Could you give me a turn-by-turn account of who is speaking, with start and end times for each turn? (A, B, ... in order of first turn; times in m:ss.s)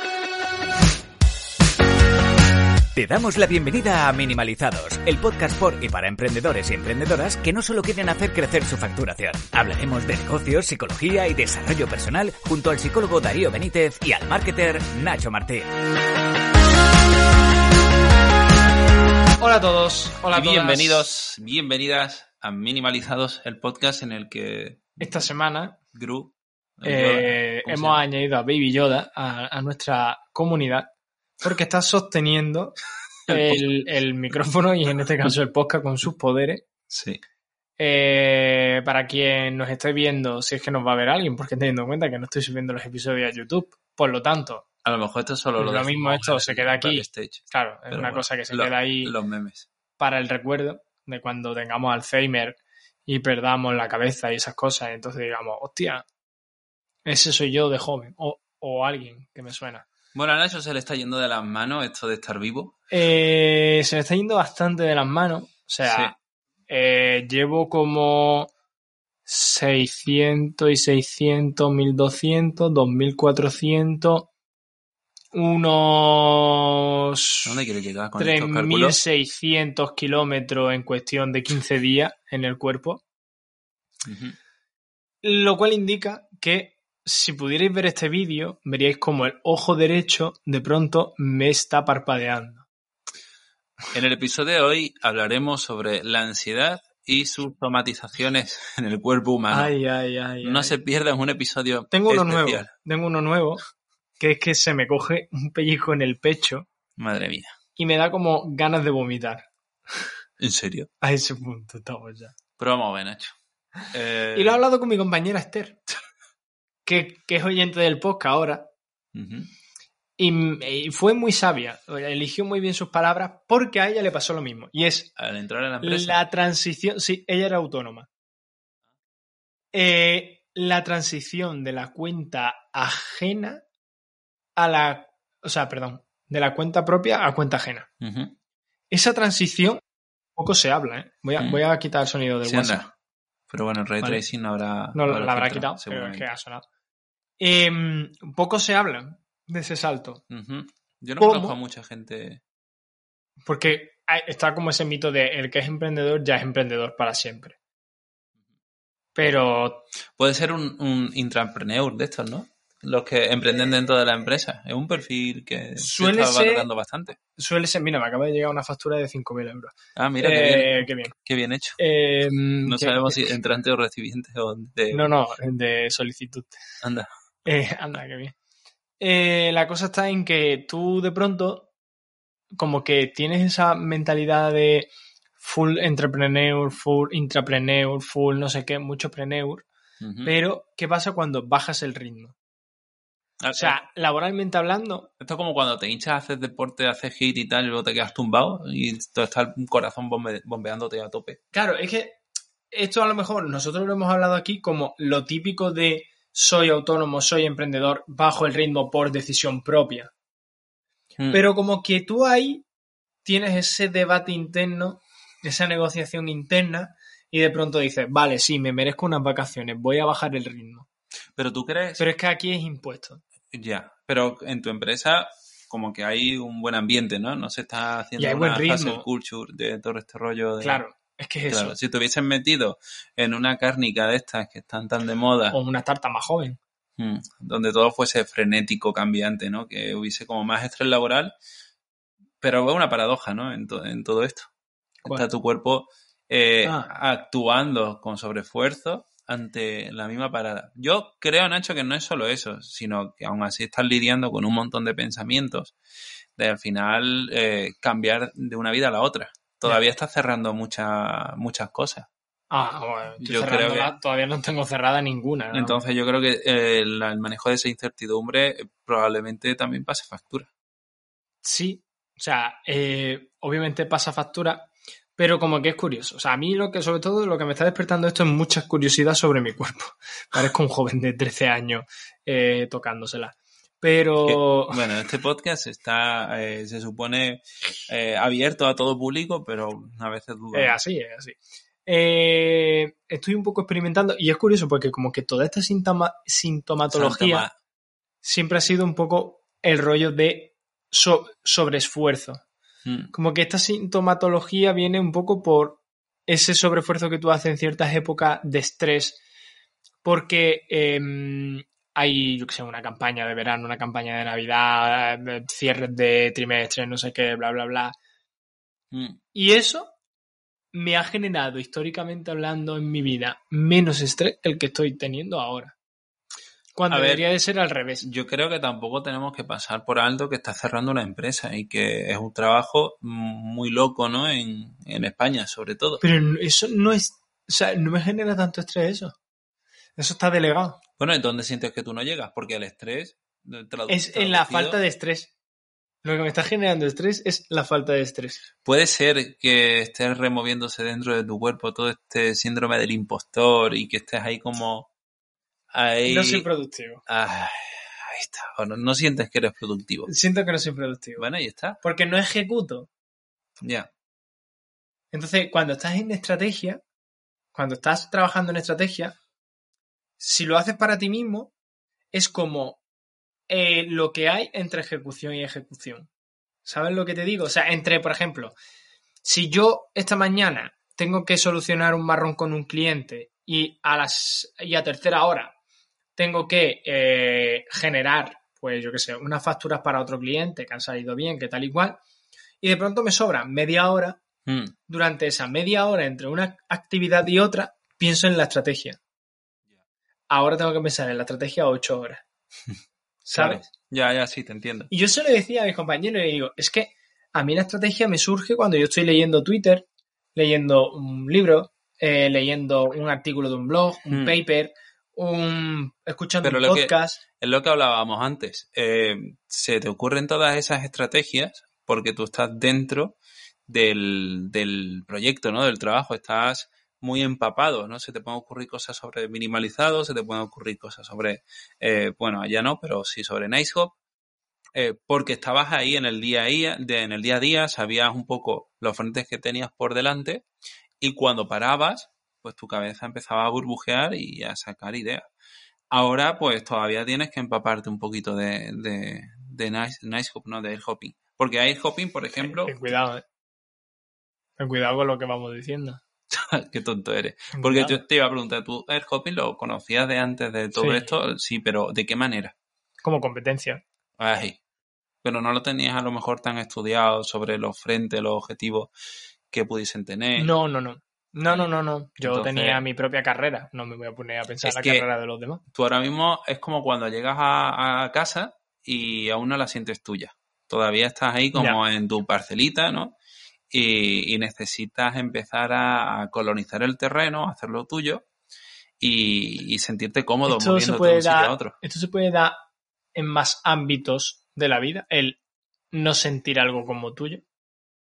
0:02.9-0:15.7 A
0:19.4-0:21.0 B
0:20.3-0:25.1 C
0:25.0-0:25.8 B
0:25.9-0:28.0 C
0:26.8-0:30.9 B
0:31.4-0:32.8 B
0:33.3-0:33.6 C
0:33.3-0:36.6 B
0:36.9-0:37.2 C
0:37.8-0:44.6 B
0:44.8-0:49.7 C
0:45.6-0:49.1 B
0:50.0-0:56.0 B
0:57.0-0:59.8 B
1:00.1-1:02.7 C
1:02.9-1:06.1 B
1:05.8-1:06.1 C
1:06.7-1:08.5 B
1:09.2-1:14.3 B
1:15.3-1:17.6 B
1:17.4-1:19.0 C
1:18.2-1:23.0 B
1:24.0-1:24.4 C
1:25.2-1:32.6 B
1:33.9-1:39.7 C
1:39.5-1:40.8 B
1:40.4-1:42.7 C
1:41.9-1:43.6 B
1:44.2-1:46.7 B
1:47.0-1:47.5 C
1:47.8-1:50.0 B
1:50.4-1:50.9 C
1:51.0-1:52.3 B
1:52.6-1:53.3 C
1:53.9-1:54.6 C
1:54.3-1:55.8 B
1:56.8-1:58.7 B
1:59.1-1:59.5 C
2:00.2-2:05.1 B
2:05.2-2:06.2 C
2:05.8-2:08.1 B
2:09.7-2:13.6 B
2:14.6-2:17.9 B
2:18.0-2:18.3 C
2:18.9-2:19.8 B
2:20.4-2:22.8 B
2:22.4-2:22.9 C
2:23.5-2:26.2 C
2:24.9-2:26.6 B
2:27.4-2:30.2 B
2:30.3-2:32.4 C
2:31.2-2:31.6 B
2:33.4-2:37.6 B
2:39.1-2:39.9 B
2:40.2-2:47.2 C
2:45.8-2:46.7 B
2:47.3-2:51.1 B
2:50.0-2:51.8 C
2:51.8-2:53.3 B
2:52.6-2:55.1 C
2:54.9-2:56.6 B
2:56.8-2:57.1 C
2:57.4-2:58.3 B
2:59.0-3:01.7 B
3:02.5-3:09.6 B
3:10.0-3:10.3 C
3:10.2-3:12.3 B
3:13.4-3:13.8 C
3:13.5-3:15.1 B
3:15.2-3:21.4 C
3:21.5-3:30.1 B
3:31.3-3:32.6 B
3:33.2-3:40.9 B
3:41.4-3:42.0 C
3:42.0-3:43.2 B
3:43.5-3:50.8 C
3:48.2-3:49.0 B
3:50.6-3:51.8 B
3:51.5-3:55.6 C
3:55.5-3:56.6 B
3:57.0-4:01.4 C
4:02.4-4:04.5 C
4:05.0-4:15.7 C
4:06.6-4:06.9 B
4:16.4-4:22.1 C
4:22.5-4:25.8 B
4:23.2-4:23.9 C
4:25.5-4:30.5 C
4:31.4-4:44.8 B
4:44.2-4:50.8 C
4:50.5-4:57.5 B
4:56.9-4:57.5 C
4:58.2-5:02.4 B
5:02.8-5:03.1 C
5:03.1-5:09.2 B
5:10.0-5:18.0 B
5:18.9-5:19.2 C
5:19.3-5:19.9 B
5:20.7-5:25.7 B
5:26.8-5:28.1 B
5:26.9-5:27.2 C
5:28.0-5:36.0 C
5:36.0-5:39.1 B
5:40.0-5:40.8 B
5:41.0-5:44.8 C
5:43.9-5:45.3 B
5:46.0-5:48.4 B
5:48.6-5:54.9 C
5:55.7-5:56.5 C
5:56.0-5:57.0 B
5:57.1-6:00.1 C
6:00.1-6:01.2 B
6:01.2-6:01.8 C
6:01.8-6:02.9 B
6:03.6-6:03.9 C
6:05.1-6:06.8 B
6:07.5-6:09.2 B
6:10.2-6:11.5 B
6:12.1-6:12.8 B
6:13.5-6:16.1 B
6:16.6-6:18.6 B
6:19.2-6:25.5 B
6:26.2-6:32.0 B
6:32.6-6:34.2 B
6:34.4-6:34.7 C
6:34.9-6:39.0 B
6:40.3-6:42.2 B
6:43.2-6:43.6 B
6:43.3-6:44.9 C
6:44.9-6:57.2 B
6:54.1-6:54.4 C
6:56.4-7:03.2 C
7:03.7-7:13.9 C
7:14.7-7:20.4 C
7:21.0-7:25.3 C
7:25.9-7:32.8 C
7:32.4-7:33.2 B
7:34.6-7:36.0 B
7:36.3-7:42.5 C
7:37.5-7:38.0 B
7:40.8-7:41.1 B
7:43.0-7:43.8 B
7:44.2-7:44.6 C
7:45.2-7:48.9 C
7:49.5-7:50.5 C
7:50.4-7:55.6 B
7:52.2-7:52.8 C
7:54.6-7:55.0 C
7:55.7-8:03.2 C
8:01.5-8:01.8 B
8:03.7-8:08.2 C
8:09.0-8:11.8 C
8:10.5-8:12.6 B
8:13.1-8:15.4 B
8:15.9-8:17.4 B